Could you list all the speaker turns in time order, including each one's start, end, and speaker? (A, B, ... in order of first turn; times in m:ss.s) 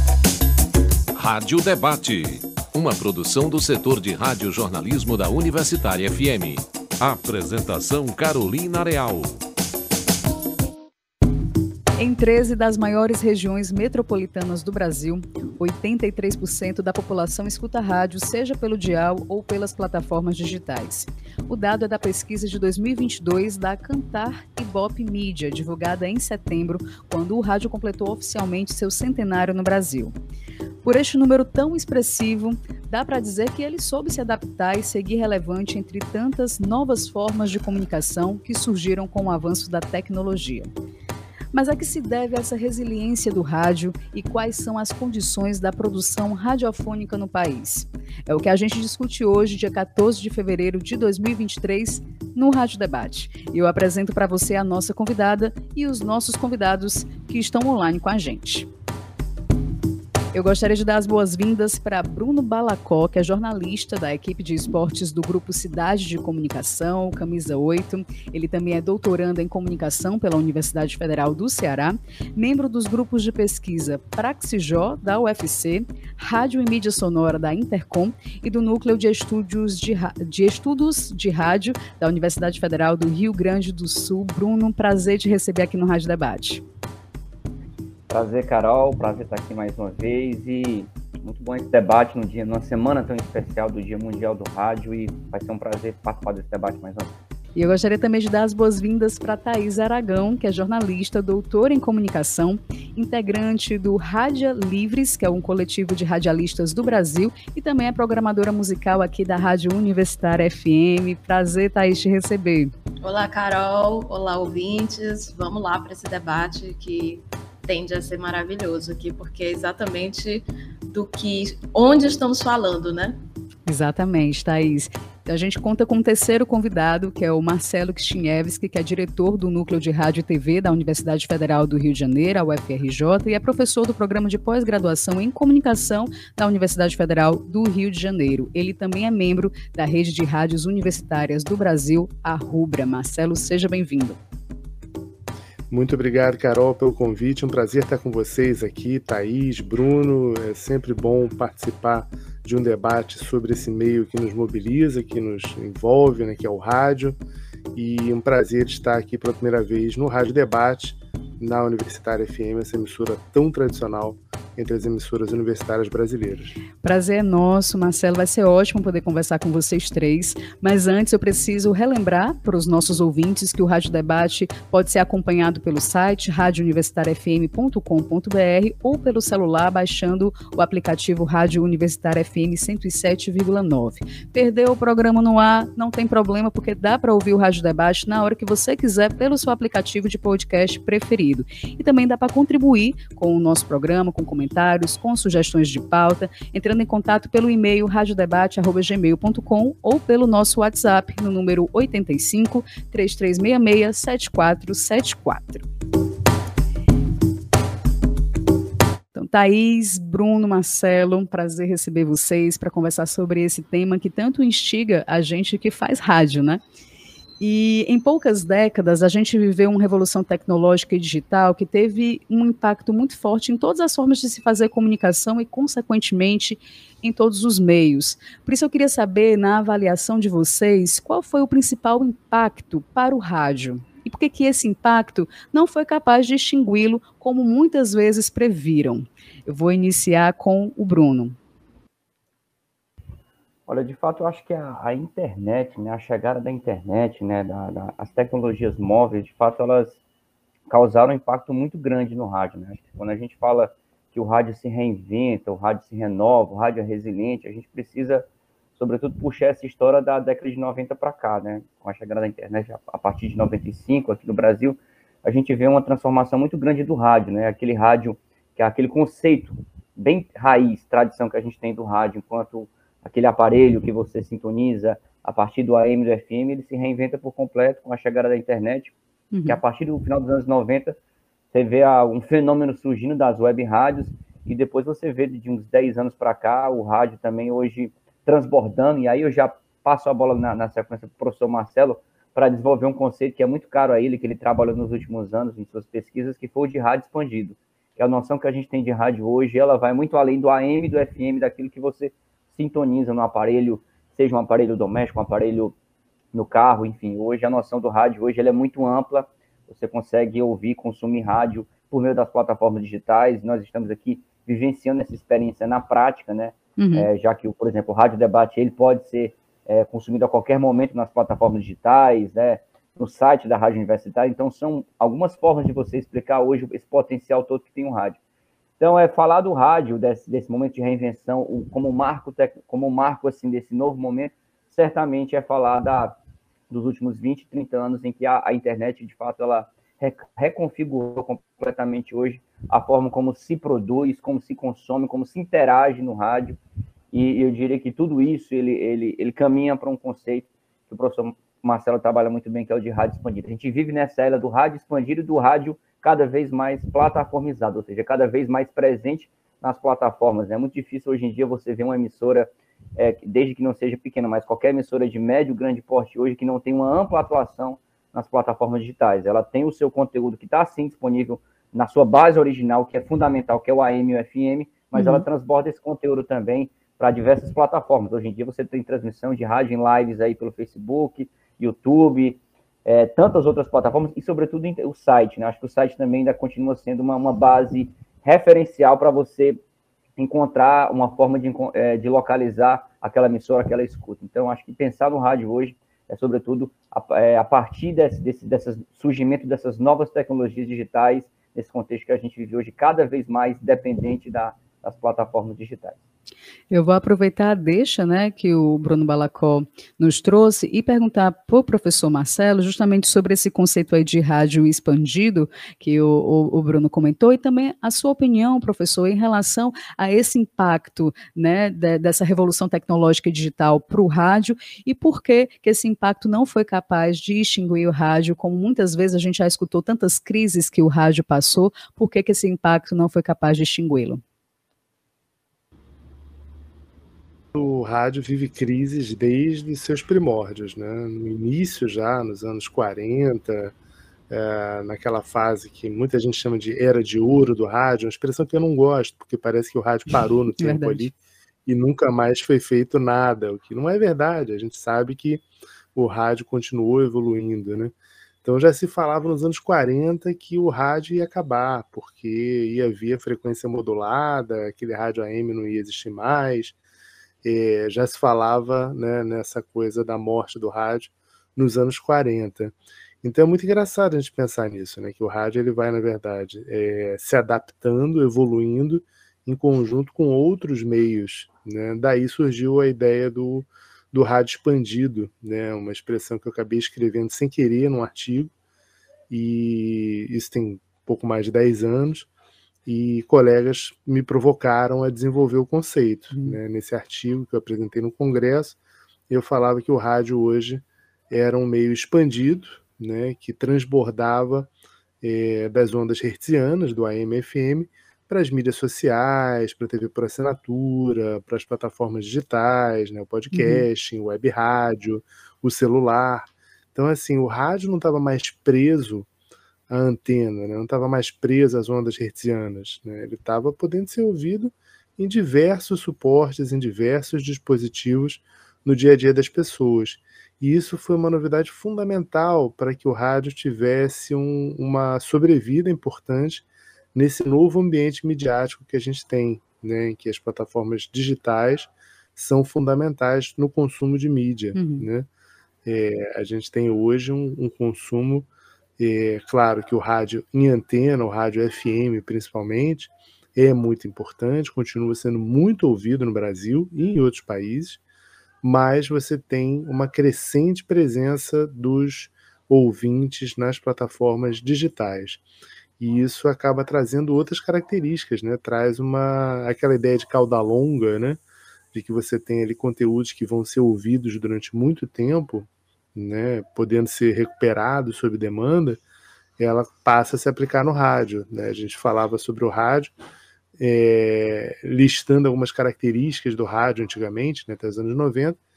0:01.1-0:09.4 A
0:12.0-0:30.1 B
0:30.8-0:40.7 B
0:41.5-0:58.7 B
1:00.3-1:26.6 B
1:28.1-1:37.1 C
1:37.6-1:52.7 B
1:53.0-2:03.2 D
2:03.7-2:24.2 B
2:25.7-2:37.2 E
2:37.7-2:46.5 E
2:46.8-3:25.6 B
3:29.1-3:36.6 B
3:37.4-4:01.4 B
4:03.7-4:10.0 C
4:10.7-4:18.2 C
4:18.8-4:38.9 C
4:39.3-4:39.6 B
4:39.4-4:41.0 C
4:41.5-5:05.7 C
5:06.3-5:28.2 C
5:16.8-5:17.1 B
5:28.8-5:36.2 C
5:36.7-5:46.6 C
5:47.1-6:29.6 C
6:15.0-6:15.2 B
6:30.2-6:46.0 C
6:46.7-7:14.2 B
7:17.5-7:23.7 E
7:24.3-7:31.1 E
7:30.6-7:31.1 B
7:31.6-7:35.4 E
7:35.9-7:46.8 E
7:47.4-8:08.5 E
8:09.3-8:12.3 E
8:12.8-8:18.8 E
8:19.3-8:24.7 E
8:25.2-8:39.3 E
8:33.5-8:33.8 B
8:39.9-9:05.3 E
9:04.7-9:05.1 B
9:05.8-9:08.5 E
9:09.0-9:18.0 E
9:18.6-9:25.4 E
9:26.0-9:31.4 E
9:31.9-9:39.0 E
9:39.6-9:43.1 E
9:43.8-9:48.6 E